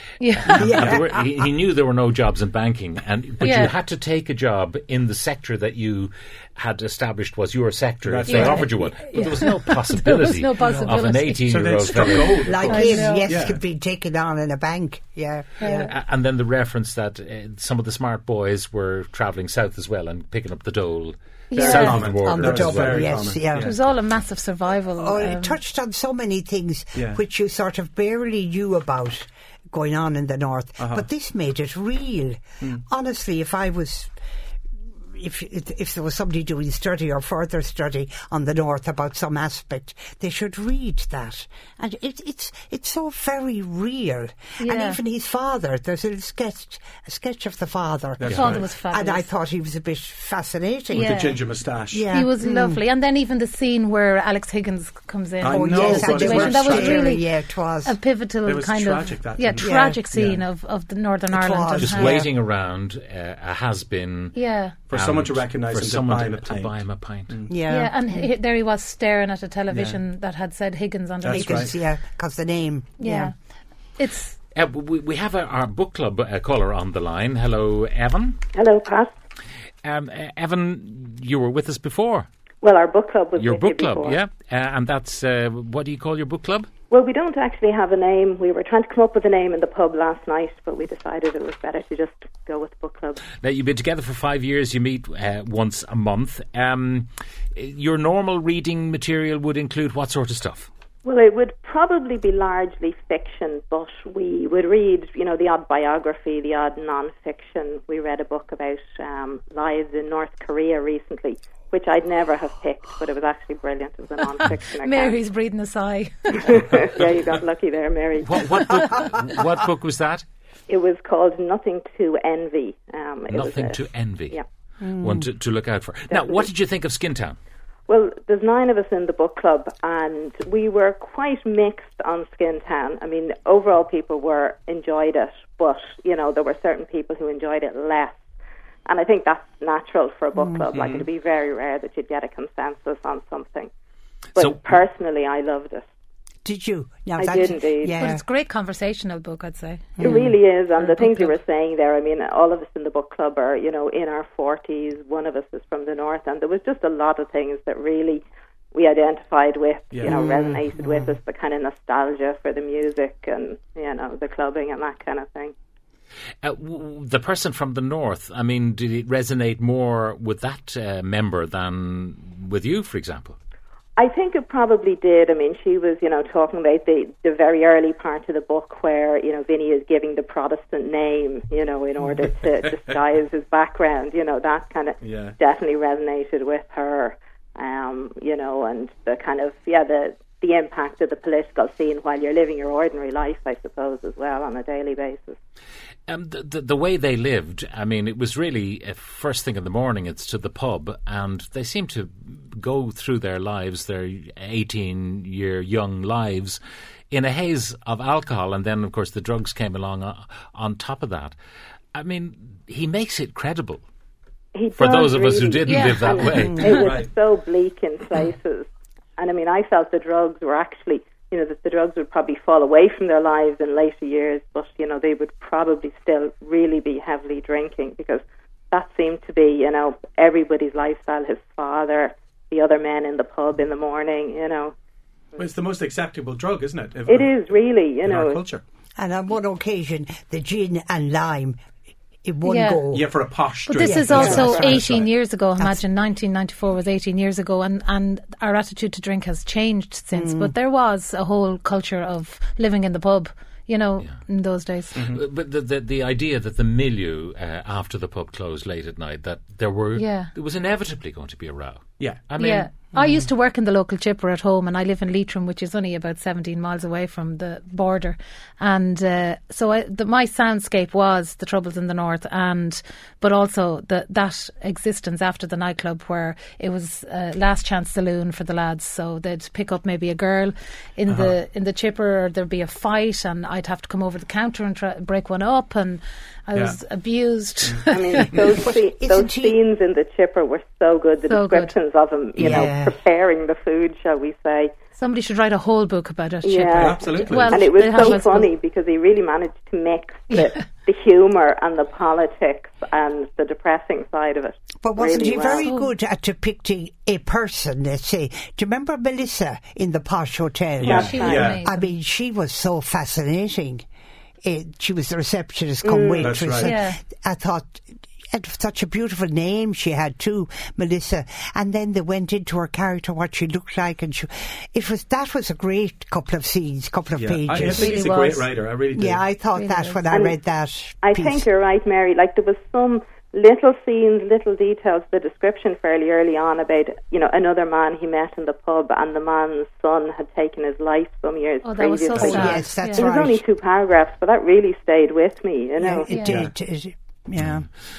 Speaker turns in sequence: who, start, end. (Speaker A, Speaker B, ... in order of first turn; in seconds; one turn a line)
Speaker A: 0.2-0.6
Speaker B: 0.4-12.7
Speaker C: 0.5-1.1
Speaker D: 0.6-1.0
Speaker A: 3.4-3.7
Speaker D: 8.0-8.8
Speaker A: 8.3-11.5
Speaker C: 10.6-10.9
Speaker D: 11.4-13.6
Speaker C: 12.4-15.9
Speaker A: 12.6-13.3
Speaker A: 15.6-15.9
Speaker B: 15.7-23.1
Speaker A: 21.5-22.0
Speaker D: 21.5-23.8
Speaker C: 21.6-23.7
Speaker A: 23.6-25.6
Speaker C: 25.0-34.1
Speaker D: 26.9-27.2
Speaker D: 30.8-31.1
Speaker C: 35.1-51.2
Speaker A: 44.6-45.0
Speaker D: 48.2-48.6
Speaker A: 48.3-49.3
Speaker A: 50.9-51.4
Speaker D: 50.9-52.1
Speaker C: 51.9-52.8
Speaker A: 52.1-57.3
Speaker D: 55.4-57.1
Speaker C: 55.5-58.0
Speaker A: 57.8-62.2
Speaker D: 58.4-60.4
Speaker C: 59.6-60.0
Speaker C: 61.3-62.3
Speaker B: 61.8-64.3
Speaker A: 64.3-64.8
Speaker D: 64.9-67.5
Speaker B: 64.9-67.4
Speaker C: 67.5-68.3
Speaker A: 67.7-71.7
Speaker D: 69.7-70.0
Speaker D: 71.2-71.7
Speaker C: 71.3-73.3
Speaker A: 73.0-73.3
Speaker A: 74.0-74.4
Speaker B: 74.5-78.4
Speaker E: 78.5-79.1
Speaker B: 79.8-82.3
Speaker E: 82.6-84.2
Speaker B: 83.4-86.7
Speaker E: 86.9-93.2
Speaker B: 93.4-100.7
Speaker E: 101.0-115.2
Speaker A: 114.8-116.4
Speaker E: 116.4-118.6
Speaker B: 118.2-120.2
Speaker E: 120.7-124.4
Speaker B: 123.3-124.4
Speaker C: 124.8-125.3
Speaker B: 125.0-127.4
Speaker E: 126.1-126.5
Speaker E: 127.9-138.2
Speaker E: 138.8-143.7
Speaker C: 140.3-140.6
Speaker D: 140.7-141.1
Speaker E: 144.3-145.8
Speaker B: 144.3-144.7
Speaker C: 146.4-148.2
Speaker E: 147.2-148.0
Speaker A: 148.0-150.0
Speaker C: 150.0-150.3
Speaker E: 150.0-165.5
Speaker A: 150.8-151.3
Speaker D: 159.9-160.2
Speaker C: 160.1-161.1
Speaker B: 166.4-173.3
Speaker E: 174.0-195.3
Speaker D: 185.0-185.4
Speaker B: 196.1-206.6
Speaker B: 207.1-211.3
Speaker B: 211.9-213.8
Speaker E: 214.5-234.7
Speaker B: 214.8-216.6
Speaker A: 215.7-216.4
Speaker C: 216.4-216.7
Speaker D: 216.7-217.1
Speaker D: 235.4-237.3
Speaker E: 237.1-238.4
Speaker D: 238.0-238.6
Speaker C: 239.0-241.6
Speaker C: 242.2-243.1
Speaker A: 242.4-242.8
Speaker D: 242.9-245.0
Speaker A: 243.7-254.9
Speaker C: 243.8-245.8
Speaker E: 244.2-244.5
Speaker C: 250.1-250.5
Speaker D: 254.9-255.2
Speaker B: 254.9-262.7
Speaker A: 259.9-260.3
Speaker A: 262.4-288.2
Speaker D: 281.1-281.3
Speaker E: 287.9-294.7
Speaker C: 288.5-289.6
Speaker A: 291.2-291.7
Speaker C: 292.4-292.9
Speaker D: 292.4-292.7
Speaker A: 295.0-298.5
Speaker E: 296.4-305.6
Speaker D: 296.8-297.6
Speaker C: 304.8-313.8
Speaker A: 305.6-305.9
Speaker D: 310.8-311.6
Speaker E: 310.8-311.5
Speaker A: 310.9-311.9
Speaker C: 314.4-328.0
Speaker E: 315.8-316.2
Speaker D: 316.1-316.7
Speaker A: 316.6-317.0
Speaker D: 327.1-329.2
Speaker A: 327.6-328.5
Speaker C: 328.9-331.5
Speaker A: 329.5-330.0
Speaker E: 330.1-330.4
Speaker E: 331.0-346.2
Speaker A: 341.6-343.1
Speaker D: 342.1-342.5
Speaker C: 342.1-343.4
Speaker C: 345.8-347.6
Speaker A: 346.1-346.4
Speaker D: 346.2-346.5
Speaker B: 347.4-347.6